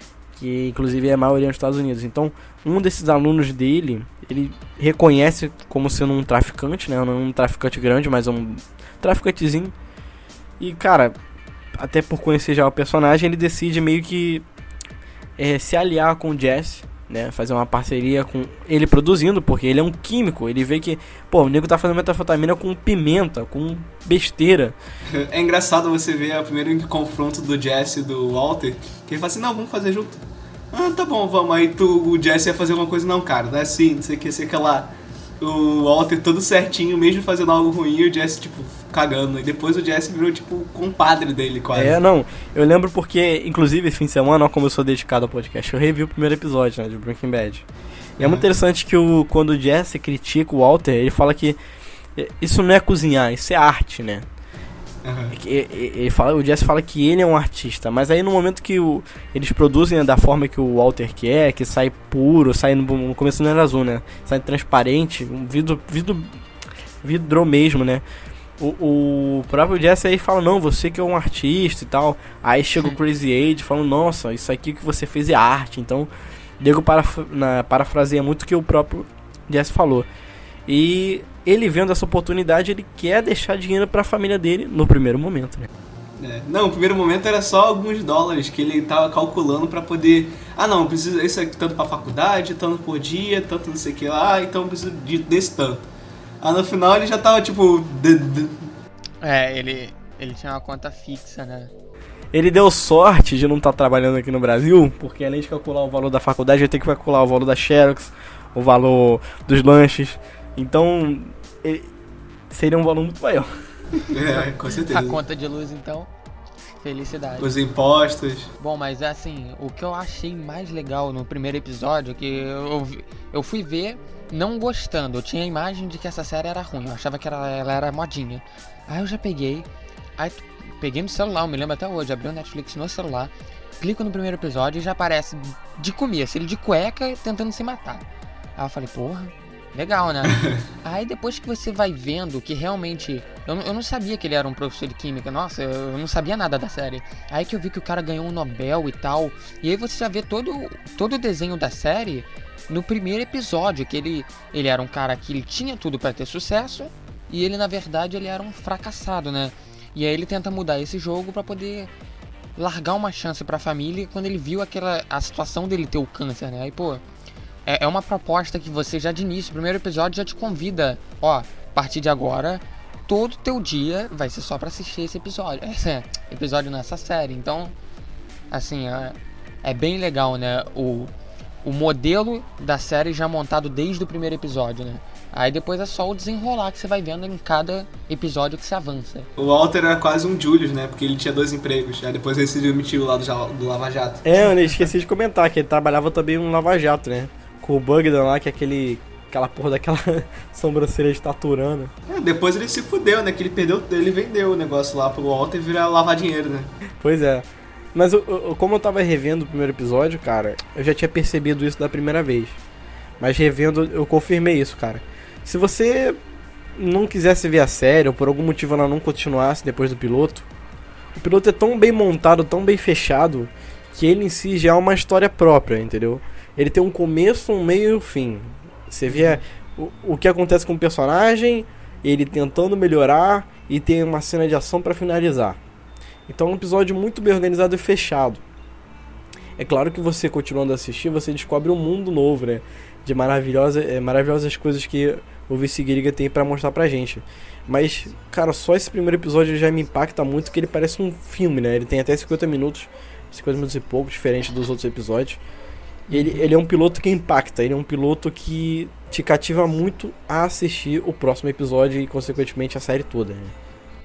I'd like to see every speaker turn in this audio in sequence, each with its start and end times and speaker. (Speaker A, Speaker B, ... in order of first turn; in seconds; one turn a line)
Speaker A: 0.3-9.7
Speaker A: 10.6-11.2
Speaker A: 11.8-14.4
Speaker A: 15.4-24.8
Speaker B: 25.1-42.0
Speaker A: 41.7-47.7
Speaker A: 48.2-51.6
Speaker B: 48.2-48.5
Speaker A: 52.2-54.3
Speaker B: 55.0-55.4
Speaker A: 55.3-66.4
Speaker A: 67.0-68.0
Speaker A: 68.6-80.1
Speaker A: 80.7-85.7
Speaker B: 86.2-95.8
Speaker B: 96.4-98.7
Speaker C: 99.2-101.7
Speaker A: 102.3-111.9
Speaker A: 112.5-113.5
Speaker C: 114.0-116.1
Speaker B: 114.1-115.2
Speaker C: 116.7-117.5
Speaker B: 117.4-118.5
Speaker C: 118.6-129.7
Speaker C: 130.2-138.1
Speaker C: 138.6-161.9
Speaker C: 162.6-167.0
Speaker C: 167.7-177.8
Speaker C: 178.5-181.1
Speaker C: 181.6-189.3
Speaker B: 189.4-194.5
Speaker A: 194.2-201.9
Speaker B: 202.1-206.7
Speaker A: 207.0-212.6
Speaker A: 213.2-216.2
Speaker A: 216.8-220.5
Speaker A: 221.2-235.6
Speaker A: 236.3-238.4
Speaker A: 239.6-255.4
Speaker C: 256.1-256.4
Speaker A: 256.1-263.6